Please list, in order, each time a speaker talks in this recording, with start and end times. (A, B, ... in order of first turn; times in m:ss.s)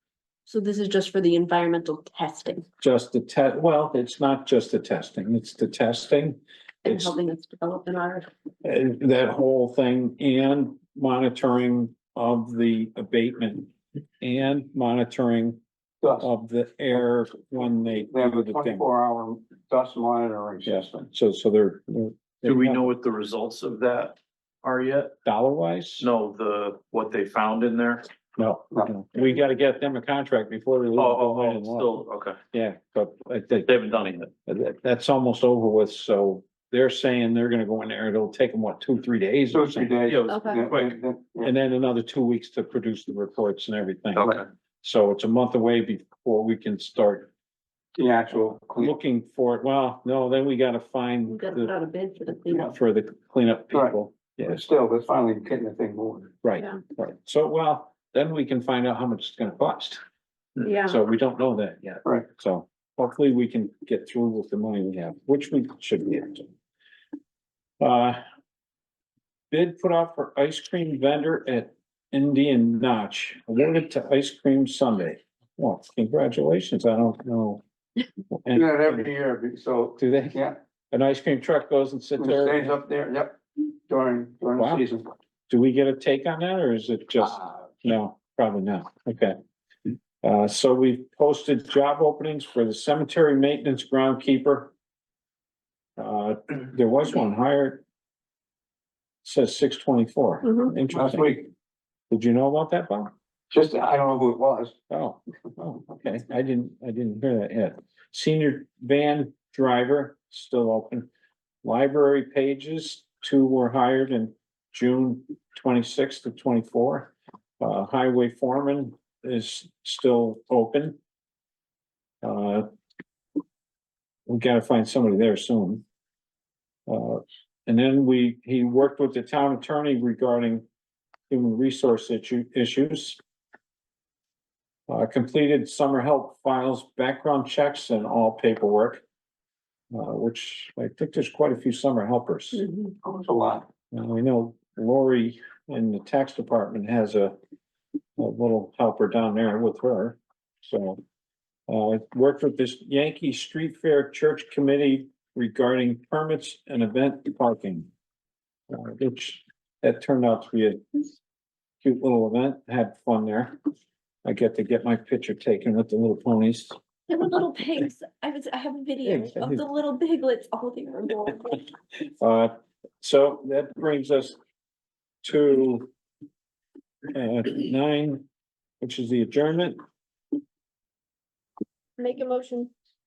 0:00.5-0:02.6 A
0:02.8-0:07.1 B
0:06.8-0:08.3 A
0:08.6-0:15.6 B
0:16.0-0:16.3 C
0:16.2-0:18.8 B
0:18.1-0:21.1 C
0:20.6-0:22.9 B
0:22.4-0:25.1 D
0:25.2-0:26.1 B
0:26.0-0:28.1 D
0:28.4-0:33.8 B
0:31.0-0:32.4 D
0:33.6-0:34.3 D
0:34.4-0:39.9 B
0:39.5-0:41.5 C
0:40.1-0:40.9 D
0:40.3-0:40.6 A
0:41.4-0:47.3 B
0:44.2-0:44.4 D
0:47.9-0:48.9 C
0:48.3-0:51.7 B
0:51.3-0:52.7 A
0:52.6-0:54.6 B
0:53.7-0:56.3 C
0:56.4-1:00.0 B
1:00.6-1:01.0 A
1:00.8-1:06.5 B
1:07.8-1:08.2 B
1:09.5-1:17.6 B
1:18.3-1:19.1 B
1:18.5-1:20.6 C
1:20.0-1:22.8 B
1:22.2-1:25.1 C
1:24.6-1:24.8 B
1:25.5-1:29.4 B
1:30.2-1:34.7 B
1:36.0-1:37.8 B
1:39.2-1:41.4 B
1:40.9-1:41.5 C
1:42.1-1:43.1 B
1:43.5-1:44.8 C
1:44.9-1:51.1 B
1:51.6-2:01.0 B
2:02.2-2:02.7 B
2:04.3-2:05.8 B
2:06.9-2:10.6 B
2:11.3-2:13.2 B
2:14.9-2:19.0 B
2:19.9-2:22.6 B
2:22.6-2:23.0 A
2:23.0-2:23.7 C
2:23.9-2:27.4 B
2:28.2-2:31.0 B
2:31.7-2:37.9 B
2:38.7-2:41.2 B
2:41.8-2:43.6 B
2:44.2-2:46.8 B
2:47.1-2:51.6 A
2:49.0-2:49.6 B
2:52.2-2:54.4 B
2:55.2-2:55.9 B
2:57.1-2:58.2 B
2:58.8-2:59.8 B
3:02.0-3:02.7 A